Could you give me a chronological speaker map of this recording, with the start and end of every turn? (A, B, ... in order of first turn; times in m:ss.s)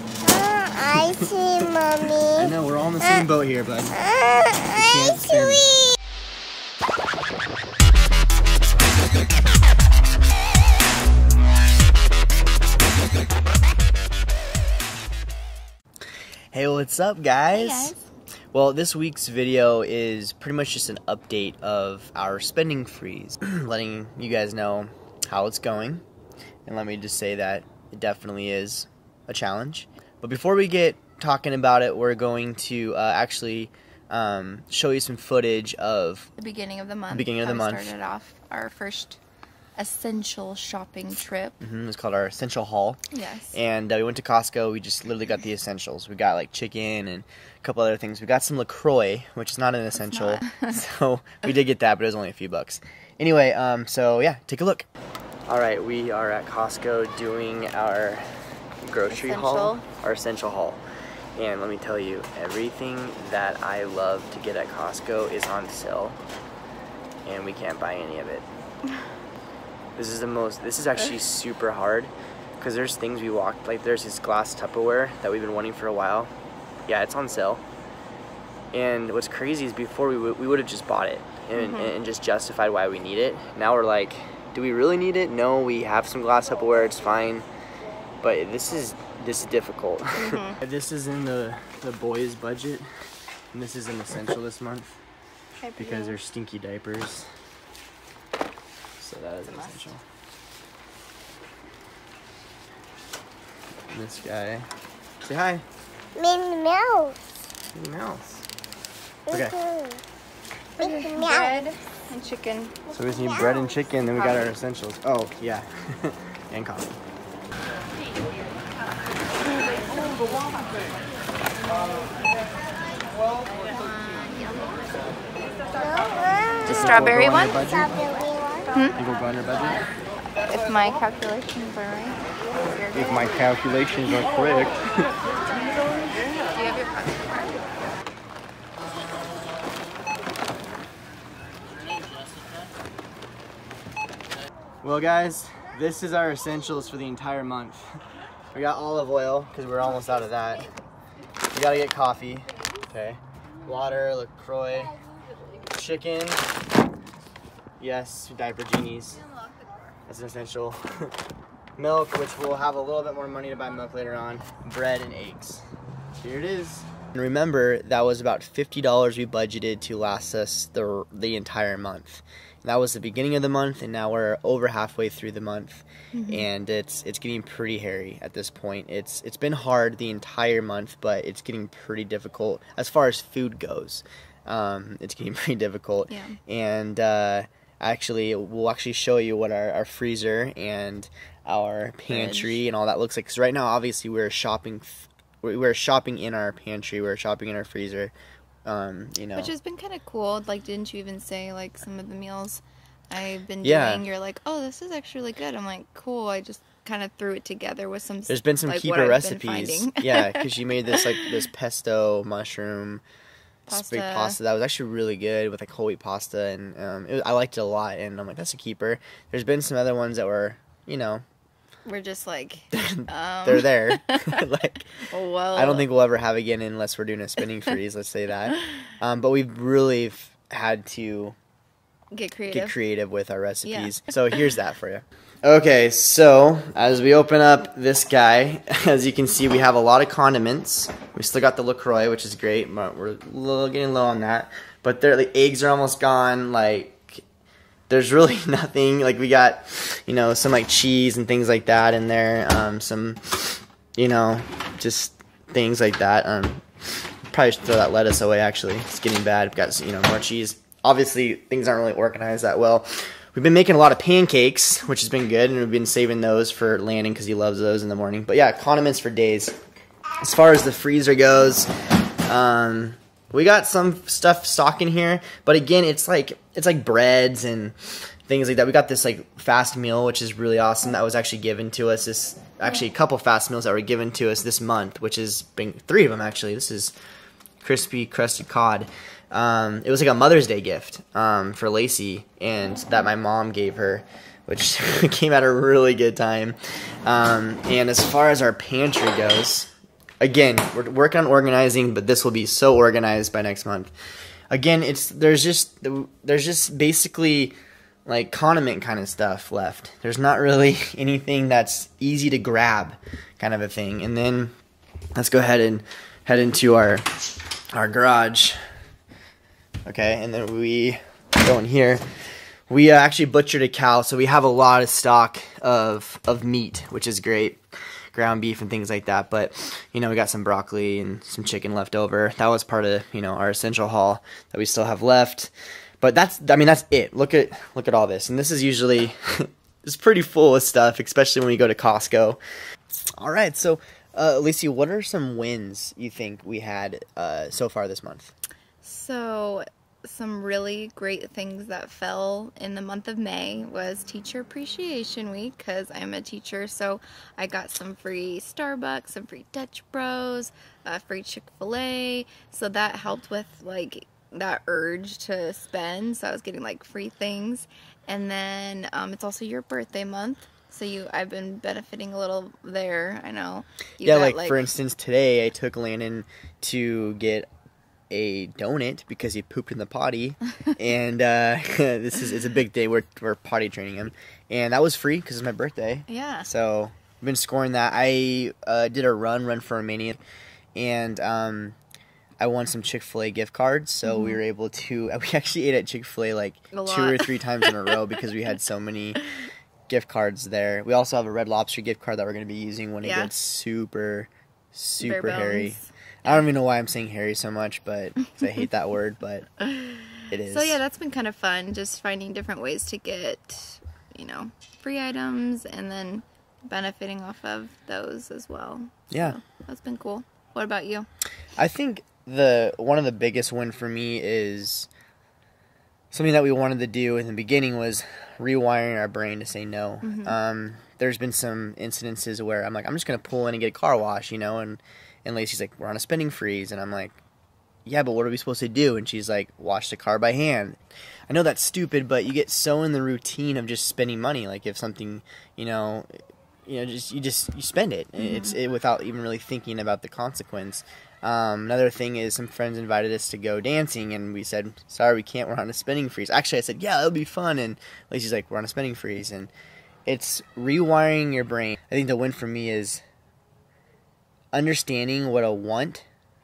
0:00.2-0:02.5 A
0:00.9-0:01.3 B
0:02.2-0:04.1 B
0:04.3-0:04.6 A
0:04.6-0:05.8 B
0:16.5-0:17.9 B
0:17.5-0:18.1 C
0:18.5-0:26.0 B
0:26.6-0:36.3 B
0:36.4-0:39.2 C
0:37.1-0:37.9 B
0:39.8-0:41.6 C
0:41.6-0:43.0 B
0:43.1-0:43.6 C
0:43.5-0:54.9 B
0:50.0-0:50.8 C
0:55.5-0:58.3 B
0:58.8-1:00.8 B
0:59.1-0:59.8 C
1:01.4-1:06.2 B
1:07.2-1:08.4 B
1:10.0-1:16.3 B
1:16.9-1:17.6 B
1:18.7-1:27.4 B
1:21.6-1:21.9 C
1:28.2-1:32.8 B
1:30.2-1:30.6 C
1:33.5-1:35.0 B
1:35.6-1:36.2 C
1:35.8-1:37.3 B
1:39.0-1:40.0 B
1:39.5-1:39.9 C
1:43.9-1:44.7 B
1:45.2-1:45.6 B
1:46.2-1:47.2 A
1:47.7-1:48.4 B
1:49.3-1:49.6 B
1:49.3-1:50.0 A
1:50.8-1:52.8 C
1:50.8-1:51.6 A
1:52.9-1:57.0 B
1:53.5-1:54.6 C
2:03.6-2:04.9 C
2:05.8-2:06.8 A
2:06.6-2:07.6 C
2:06.7-2:08.0 B
2:07.6-2:08.7 A
2:08.7-2:09.0 C
2:09.0-2:09.8 B
2:10.5-2:13.4 C
2:12.9-2:15.1 B
2:16.5-2:17.5 C
2:24.8-2:27.8 B
2:28.5-2:30.7 B
2:31.5-2:35.0 B
2:35.7-2:36.5 B
2:37.8-2:39.2 B
2:40.1-2:41.1 B
2:41.8-2:45.6 B
2:46.2-3:18.1 B
2:56.1-2:56.5 C
3:06.1-3:06.4 C
3:12.1-3:12.6 C
3:18.6-3:19.5 B
3:19.4-3:31.4 C
3:23.6-3:24.0 B
3:28.3-3:33.0 B
3:33.7-3:34.4 C
3:33.7-3:41.2 B
3:41.8-3:44.4 C
3:42.7-3:51.4 B
3:45.0-3:45.8 C
3:52.1-3:52.7 C
3:52.5-4:07.2 B
3:53.6-3:54.0 C
4:07.9-4:16.6 B
4:17.3-4:29.6 B
4:30.2-4:31.7 B
4:32.3-4:46.9 B
4:47.6-5:03.9 B
5:04.5-5:07.5 B
5:08.0-5:14.5 B
5:15.1-5:17.1 B
5:17.7-5:18.6 B
5:19.8-5:22.0 B
5:22.7-5:27.6 B
5:28.1-5:42.4 B
5:43.2-5:48.3 B
5:48.8-6:14.6 C
6:14.0-6:17.5 B
6:18.1-6:30.2 B
6:26.1-6:26.5 C
6:30.7-6:31.8 B
6:32.4-6:39.2 B
6:34.0-6:34.4 C
6:36.7-6:38.0 C
6:39.9-6:49.5 B
6:43.0-6:43.3 C
6:45.0-6:46.4 C
6:49.6-7:01.1 C
6:50.3-6:50.8 B
6:59.1-6:59.4 B
7:01.6-7:04.9 B
7:06.1-7:17.2 B
7:10.0-7:10.4 C
7:17.8-7:20.8 B
7:21.3-7:26.1 B
7:26.6-7:39.5 B
7:28.2-7:28.6 C
7:40.0-7:43.0 B
7:44.5-7:46.0 B